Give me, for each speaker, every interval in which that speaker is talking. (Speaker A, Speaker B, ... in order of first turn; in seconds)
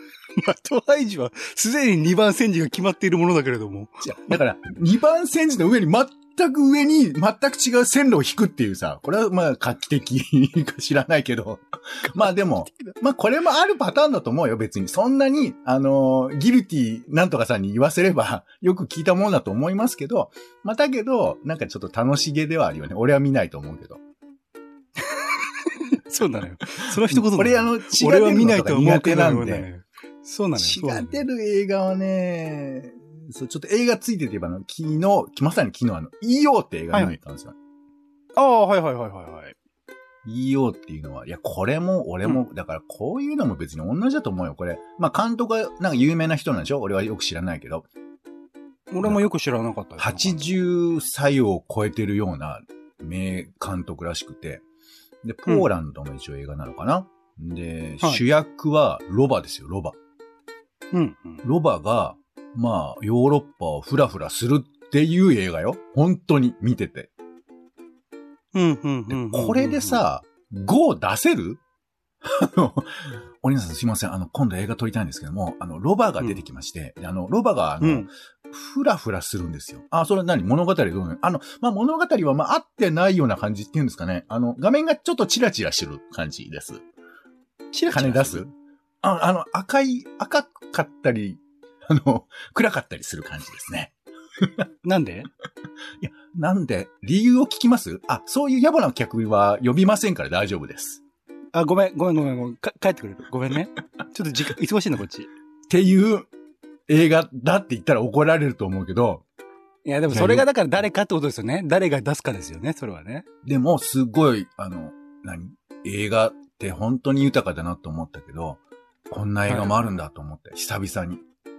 Speaker A: 0.4-4.4, 25.4-31.2, 38.4-39.5, 48.9-50.5, 60.9-61.4, 68.5-70.0, 77.8-78.1, 87.7-88.5, 94.8-95.3, 101.5-105.3, 109.8-113.2, 119.5-119.7
Speaker B: 4.0-24.0, 27.0-29.7, 30.6-37.5, 40.2-47.9, 50.0-54.6, 55.2-60.0, 61.4-67.1, 69.1-71.6, 72.2-86.8, 87.9-88.5, 89.0-94.7, 96.0-101.0, 105.7-106.3, 106.9-109.2, 110.1-110.5, 113.4-121.2